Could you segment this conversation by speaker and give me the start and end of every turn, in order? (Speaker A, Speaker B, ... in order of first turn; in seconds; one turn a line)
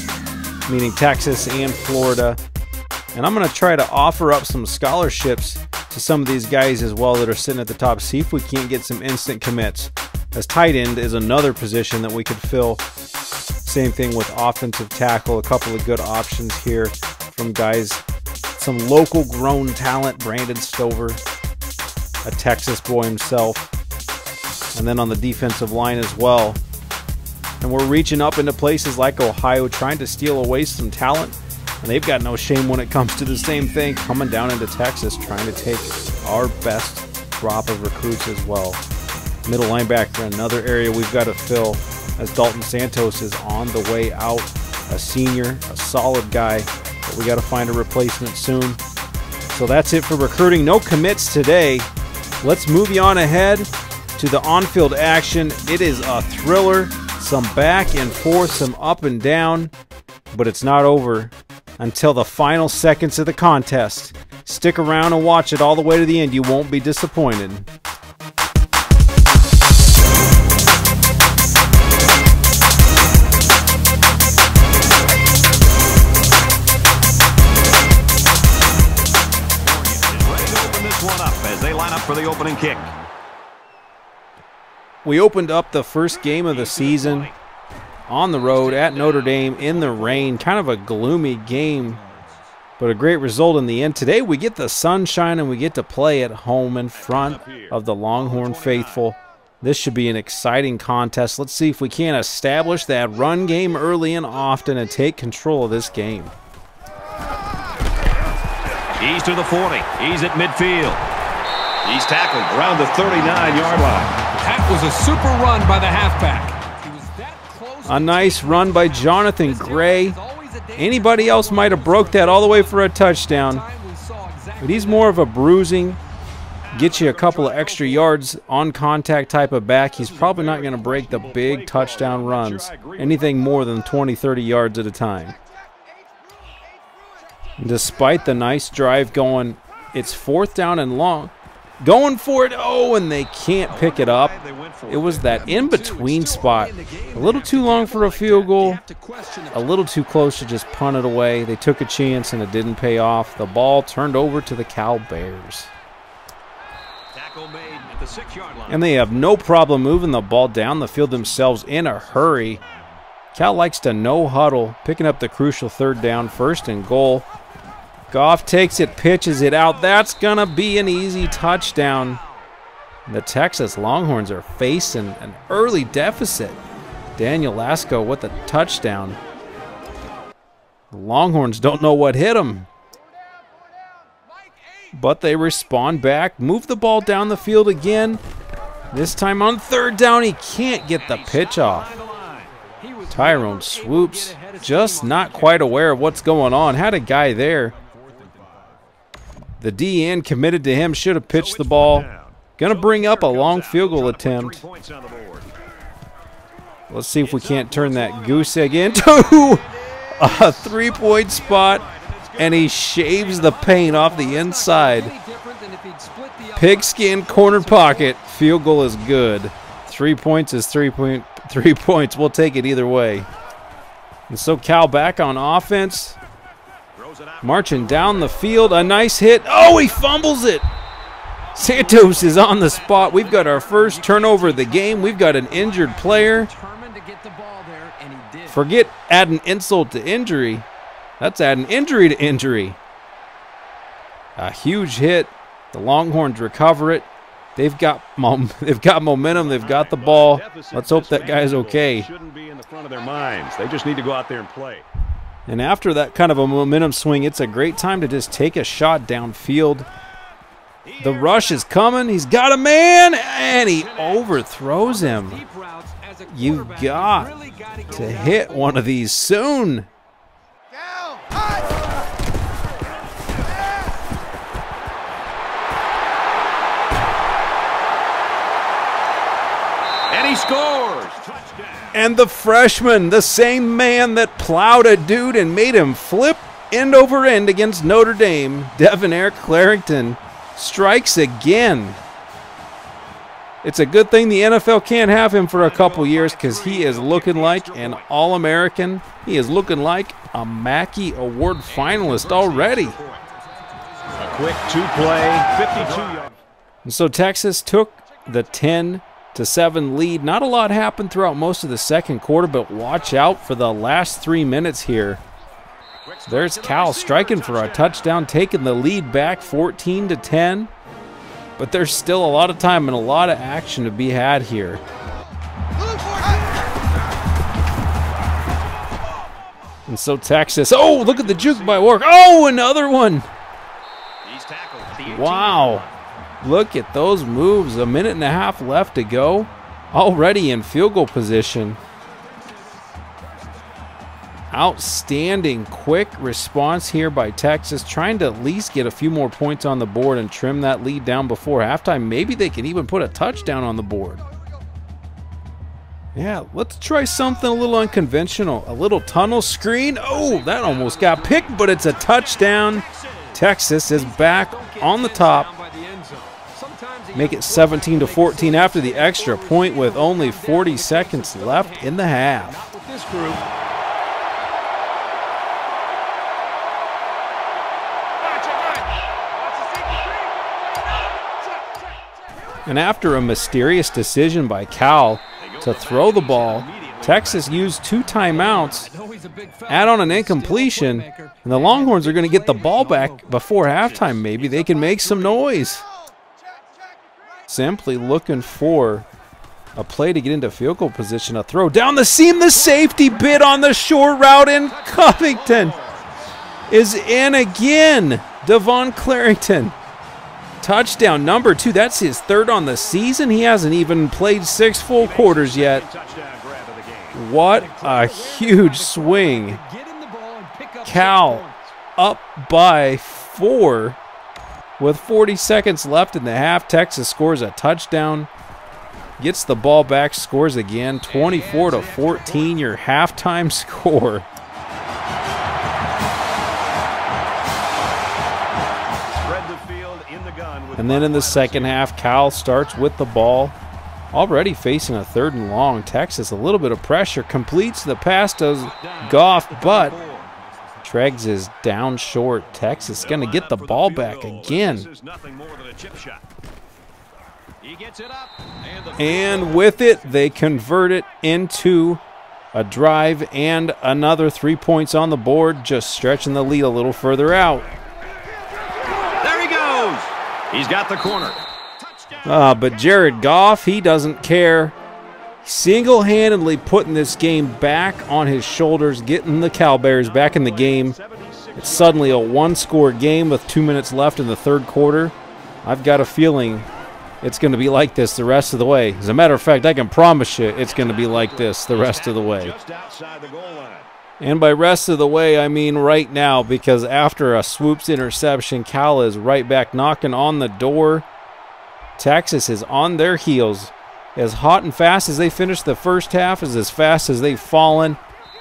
Speaker A: 0.7-2.4
Speaker A: 3.1-12.8
Speaker A: 13.7-18.0
Speaker A: 18.6-21.2
Speaker A: 22.2-23.7
Speaker A: 24.7-26.6
Speaker A: 27.6-38.8
Speaker A: 39.5-48.8
Speaker A: 49.5-51.9
Speaker A: 52.4-59.7
Speaker A: 60.3-67.7
Speaker B: 79.6-82.9
Speaker A: 85.0-87.3
Speaker B: 86.5-87.3
Speaker A: 88.1-92.0
Speaker B: 88.5-90.4
Speaker A: 92.8-106.3
Speaker B: 97.0-99.0
Speaker B: 109.0-111.0
Speaker B: 111.8-114.3
Speaker C: 114.3-125.2
Speaker A: 117.8-120.2
Speaker A: 120.8-123.7
Speaker A: 124.6-126.0
Speaker A: 126.7-135.4
Speaker B: 126.8-128.1
Speaker B: 130.0-133.3
Speaker A: 137.6-144.3
Speaker B: 143.7-145.4
Speaker A: 144.9-148.8
Speaker C: 145.4-149.7
Speaker A: 149.5-155.7
Speaker B: 157.1-158.9
Speaker A: 158.7-162.6
Speaker A: 163.3-167.3
Speaker A: 168.1-172.2
Speaker A: 173.1-176.6
Speaker A: 177.2-179.2
Speaker A: 180.9-182.7
Speaker A: 184.9-188.2
Speaker A: 188.9-191.9
Speaker B: 190.9-192.6
Speaker C: 192.8-195.8
Speaker A: 193.1-197.7
Speaker B: 197.8-198.9
Speaker A: 199.6-204.6
Speaker B: 201.3-205.5
Speaker A: 206.9-211.8
Speaker B: 207.2-213.6
Speaker A: 212.4-215.1
Speaker C: 213.5-218.1
Speaker A: 216.6-223.3
Speaker A: 224.3-226.2
Speaker B: 226.9-228.8
Speaker A: 227.4-230.7
Speaker A: 231.6-236.5
Speaker C: 231.9-232.4
Speaker B: 232.4-233.7
Speaker C: 233.4-238.7
Speaker A: 238.5-240.7
Speaker A: 241.2-242.8
Speaker A: 244.4-252.1
Speaker B: 249.3-254.9
Speaker A: 255.5-259.9
Speaker B: 260.9-261.7
Speaker A: 261.0-265.4
Speaker B: 263.5-264.4
Speaker C: 264.9-268.8
Speaker A: 266.3-267.3
Speaker A: 267.9-269.9
Speaker B: 280.1-281.9
Speaker A: 281.9-292.0
Speaker A: 293.6-303.0
Speaker B: 295.5-298.1
Speaker B: 301.7-303.3
Speaker B: 304.2-306.4
Speaker A: 306.8-315.2
Speaker B: 316.0-318.2
Speaker A: 316.3-320.7
Speaker A: 321.6-324.8
Speaker A: 329.9-333.3
Speaker B: 330.9-331.9
Speaker B: 334.2-335.9
Speaker A: 335.1-335.9
Speaker A: 336.4-341.8
Speaker A: 344.5-354.2
Speaker A: 356.1-365.5
Speaker C: 360.5-360.8
Speaker B: 360.5-363.4
Speaker C: 363.9-373.5
Speaker A: 367.1-372.6
Speaker C: 378.5-378.8
Speaker C: 379.5-380.3
Speaker A: 382.7-388.9
Speaker B: 385.4-387.8
Speaker C: 388.4-393.4
Speaker A: 389.7-395.9
Speaker B: 394.0-395.1
Speaker A: 397.5-399.1
Speaker A: 399.8-405.8
Speaker B: 404.7-406.3
Speaker A: 406.7-409.8
Speaker A: 410.6-415.8
Speaker B: 415.0-417.2
Speaker A: 417.1-419.6
Speaker C: 417.5-421.6
Speaker A: 420.8-421.4
Speaker A: 422.0-424.0
Speaker A: 424.8-428.3
Speaker A: 429.2-434.3
Speaker B: 431.1-432.6
Speaker B: 439.1-441.8
Speaker A: 440.8-443.6
Speaker A: 444.1-450.0
Speaker B: 448.6-450.3
Speaker A: 450.8-454.9
Speaker B: 452.9-456.2
Speaker B: 457.6-460.3
Speaker A: 459.0-462.0
Speaker A: 462.5-467.8
Speaker B: 469.2-471.4
Speaker A: 472.2-474.8
Speaker A: 475.4-481.0
Speaker B: 479.9-482.3
Speaker A: 481.6-486.7
Speaker A: 487.2-492.6
Speaker B: 490.6-493.9
Speaker A: 494.2-501.1
Speaker A: 502.0-508.0